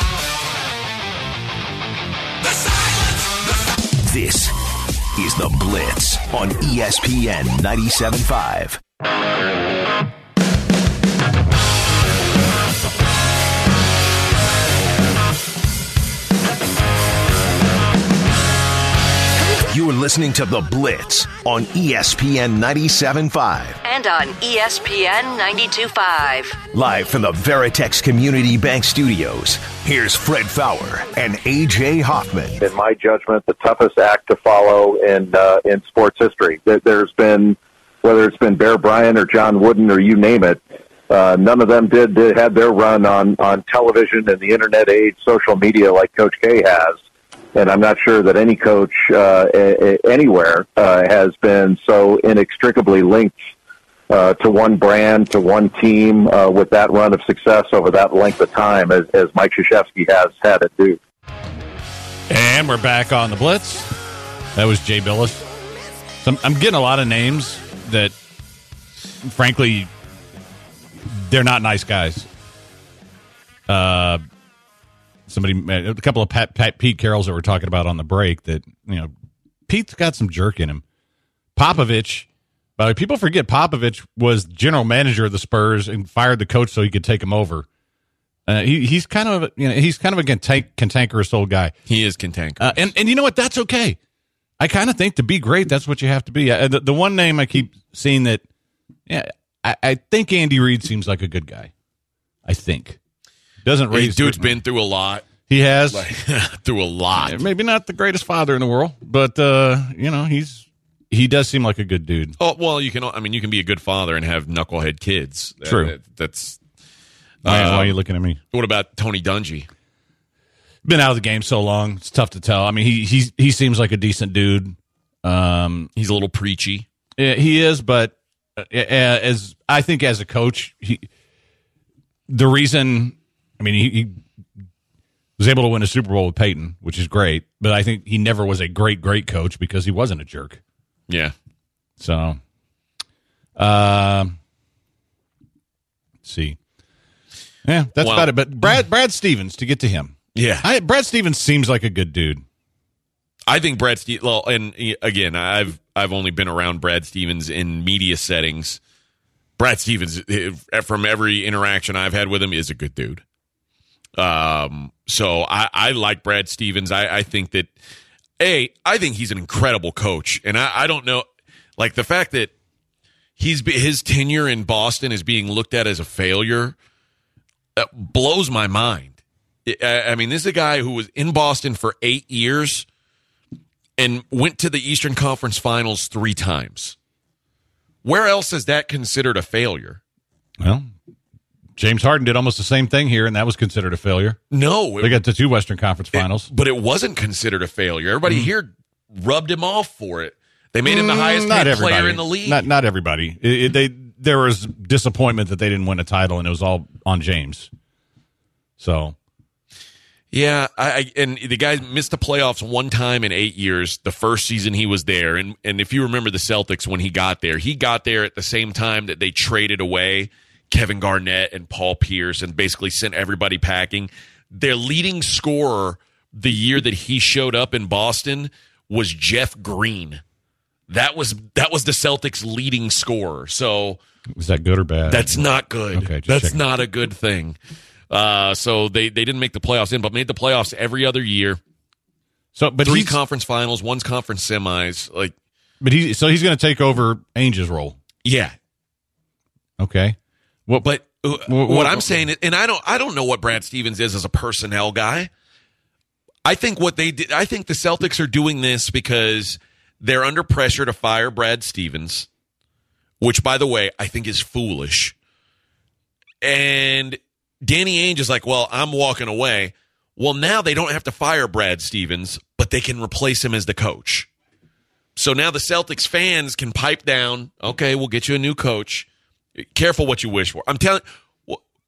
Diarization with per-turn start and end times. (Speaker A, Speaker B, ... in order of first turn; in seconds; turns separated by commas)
Speaker A: 4.0-4.5, Speaker A: 5.2-8.8, Speaker A: 19.7-23.8, Speaker B: 23.8-26.6, Speaker A: 26.7-32.6, Speaker C: 32.6-47.0, Speaker C: 47.5-53.4, Speaker C: 54.1-61.0, Speaker D: 62.3-63.9, Speaker D: 64.5-65.4, Speaker D: 66.2-68.1, Speaker D: 69.2-69.9, Speaker D: 71.0-72.3, Speaker D: 73.7-74.2, Speaker D: 75.3-79.1, Speaker D: 79.7-80.8, Speaker D: 81.5-87.7, Speaker D: 88.5-91.7, Speaker E: 91.9-92.9, Speaker D: 92.6-94.0, Speaker D: 94.6-98.4, Speaker D: 99.1-101.7, Speaker D: 102.4-103.0, Speaker D: 103.6-104.6, Speaker E: 103.9-105.3, Speaker D: 105.5-106.0, Speaker E: 105.9-107.4, Speaker D: 107.2-112.3, Speaker E: 112.4-116.6, Speaker D: 115.6-115.9, Speaker E: 117.4-118.0, Speaker D: 117.4-118.4, Speaker E: 118.5-119.7, Speaker D: 120.8-125.9, Speaker E: 126.0-126.9, Speaker D: 127.2-131.1, Speaker D: 132.3-134.2, Speaker D: 135.4-140.6, Speaker E: 141.1-141.3, Speaker D: 142.0-142.4, Speaker D: 143.6-144.4, Speaker D: 146.2-146.6, Speaker D: 147.6-152.4, Speaker E: 148.0-148.3, Speaker E: 150.3-150.7, Speaker E: 153.5-158.8, Speaker E: 159.6-163.2, Speaker E: 164.2-167.7, Speaker E: 168.4-172.5, Speaker E: 173.4-176.8, Speaker E: 177.8-182.9, Speaker E: 184.0-186.9, Speaker E: 188.0-190.0, Speaker D: 190.6-190.9, Speaker D: 191.8-194.4, Speaker E: 194.5-195.2, Speaker D: 195.0-196.5, Speaker E: 196.1-202.7, Speaker D: 200.8-207.7, Speaker D: 208.8-209.2, Speaker E: 210.3-230.2, Speaker E: 230.9-234.0, Speaker D: 234.3-236.6, Speaker E: 235.1-237.6, Speaker E: 238.1-241.6, Speaker D: 242.5-243.2, Speaker E: 242.8-245.3, Speaker D: 245.8-248.0, Speaker E: 248.2-248.5, Speaker D: 249.8-252.2, Speaker E: 250.8-255.3, Speaker E: 256.4-262.3, Speaker E: 263.2-265.1, Speaker E: 266.4-274.3, Speaker E: 275.1-281.6